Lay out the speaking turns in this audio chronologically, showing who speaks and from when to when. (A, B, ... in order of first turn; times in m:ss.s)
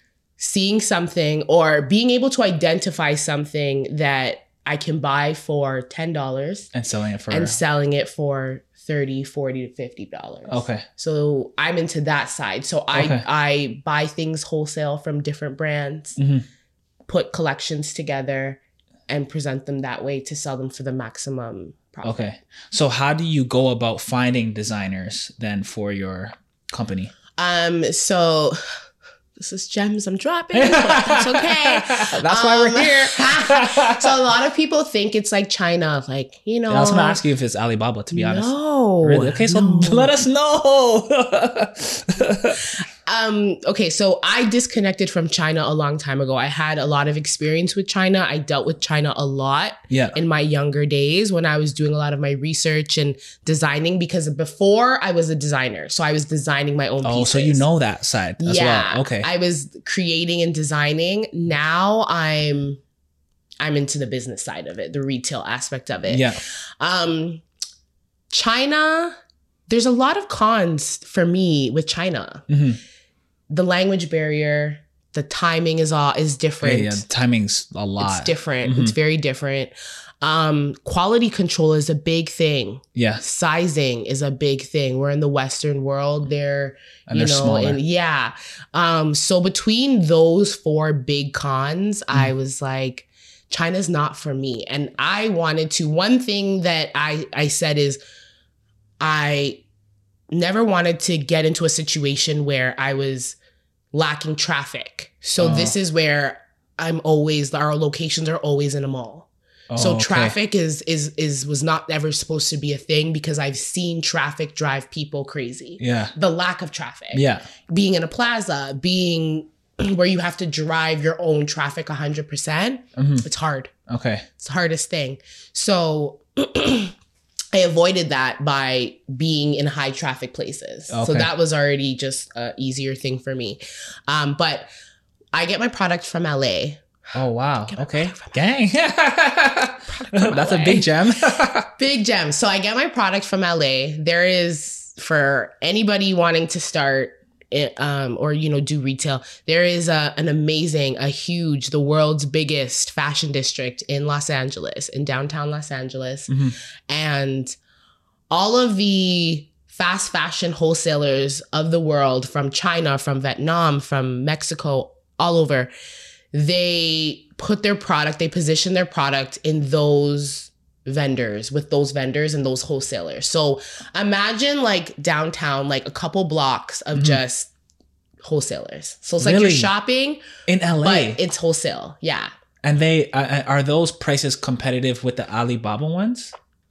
0:00.4-0:06.7 A
0:06.7-0:07.6 B
0:07.3-0:16.2 A
0:10.5-0:10.8 B
0:12.9-0:13.2 B
0:16.2-0:16.4 B
0:17.1-0:22.3 A
0:22.0-0:27.1 B
0:27.4-0:28.6 A
0:29.4-0:37.2 A
0:30.5-0:34.2 B
0:36.7-0:38.5 B
0:38.1-0:40.2 A
0:39.0-0:42.6 B
0:42.7-0:57.6 A
0:49.9-0:50.2 B
0:57.0-0:59.3 B
0:58.4-1:02.8 A
1:03.6-1:06.3 A
1:06.1-1:06.4 B
1:06.8-1:07.4 A
1:08.3-1:09.1 A
1:09.7-1:12.4 A
1:12.5-1:12.8 B
1:13.5-1:17.0 A
1:16.6-1:19.0 B
1:18.0-1:38.0 A
1:23.0-1:23.2 B
1:27.1-1:27.8 B
1:39.0-1:39.6 A
1:40.3-1:43.4 A
1:43.9-2:03.7 A
1:45.4-1:45.7 B
1:49.7-1:50.4 B
1:55.8-1:56.1 B
1:57.1-1:57.5 B
2:03.0-2:03.2 B
2:03.9-2:04.2 B
2:04.4-2:06.9 A
2:07.5-2:14.7 A
2:10.9-2:11.3 B
2:15.3-2:16.8 A
2:17.1-2:21.7 B
2:17.7-2:18.4 A
2:19.9-2:20.9 A
2:21.8-2:37.5 A
2:36.3-2:36.5 B
2:38.3-2:45.7 A
2:46.3-2:57.5 A
2:56.9-2:57.2 B
2:58.2-3:00.2 A
2:59.2-2:59.7 B
3:00.5-3:01.2 B
3:00.8-3:02.3 A
3:02.6-3:06.3 B